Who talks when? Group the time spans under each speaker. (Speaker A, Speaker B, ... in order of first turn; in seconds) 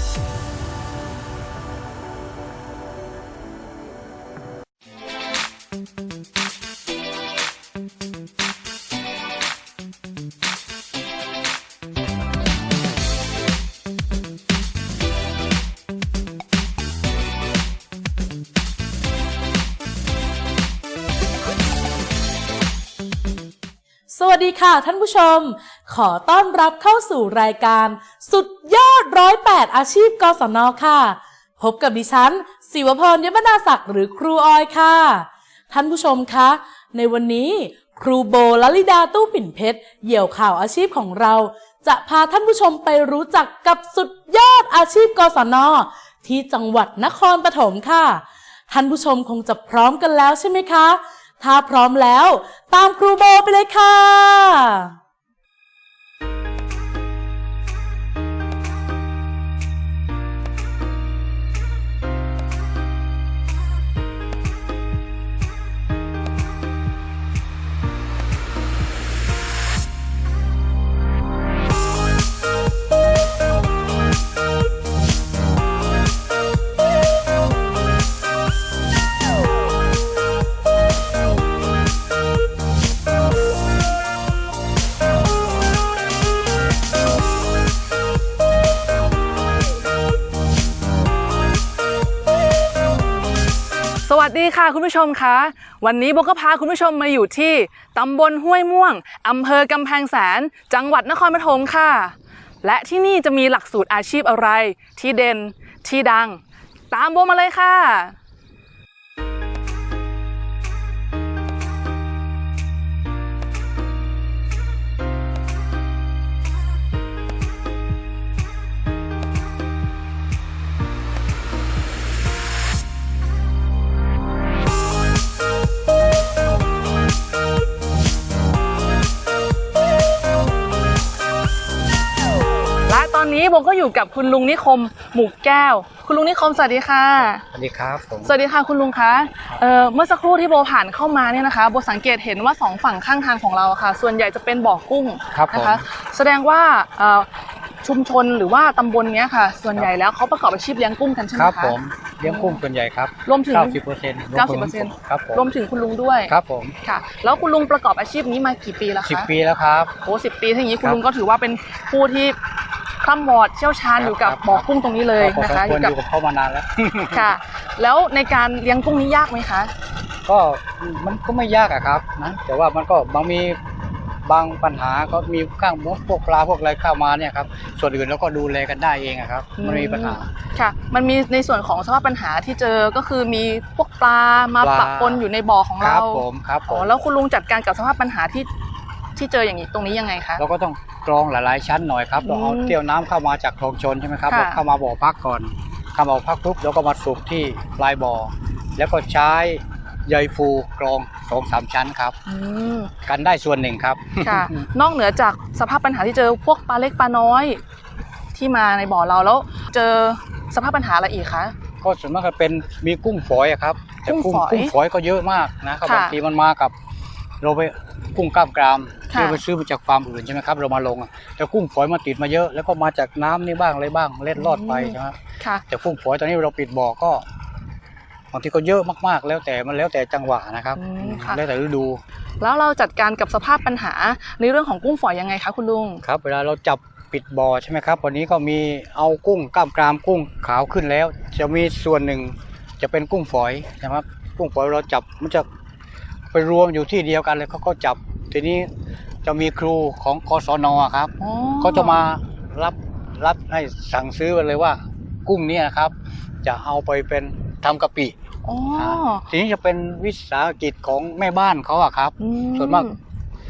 Speaker A: 24.1-54.9
Speaker B: 94.0-108.2, 132.9-137.4, 138.2-147.3, 147.8-152.6, 153.2-153.8, 154.3-159.3, 160.0-162.4, 163.0-165.9, 167.1-169.7, 179.6-188.5, 189.2-190.4, 192.2-192.8, 194.3-194.6, 202.3-202.9, 204.2-207.6, 208.3-211.5, 214.1-214.7, 215.8-216.2, 219.1-219.4, 224.3-225.6, 230.8-231.4, 232.4-236.0, 251.2-252.1, 258.4-259.3, 262.2-263.0
Speaker C: 137.3-138.3, 145.3-145.8, 151.3-155.4, 156.3-156.7, 159.0-159.9, 163.9-164.7, 165.2-167.3, 170.2-173.6, 174.2-180.3, 184.6-185.2, 185.8-186.9, 190.4-202.2, 203.0-204.5, 211.8-216.7, 217.4-225.2, 225.7-227.2, 228.3-232.0, 236.0-245.5, 246.3-248.7, 249.2-258.1, 258.7-262.9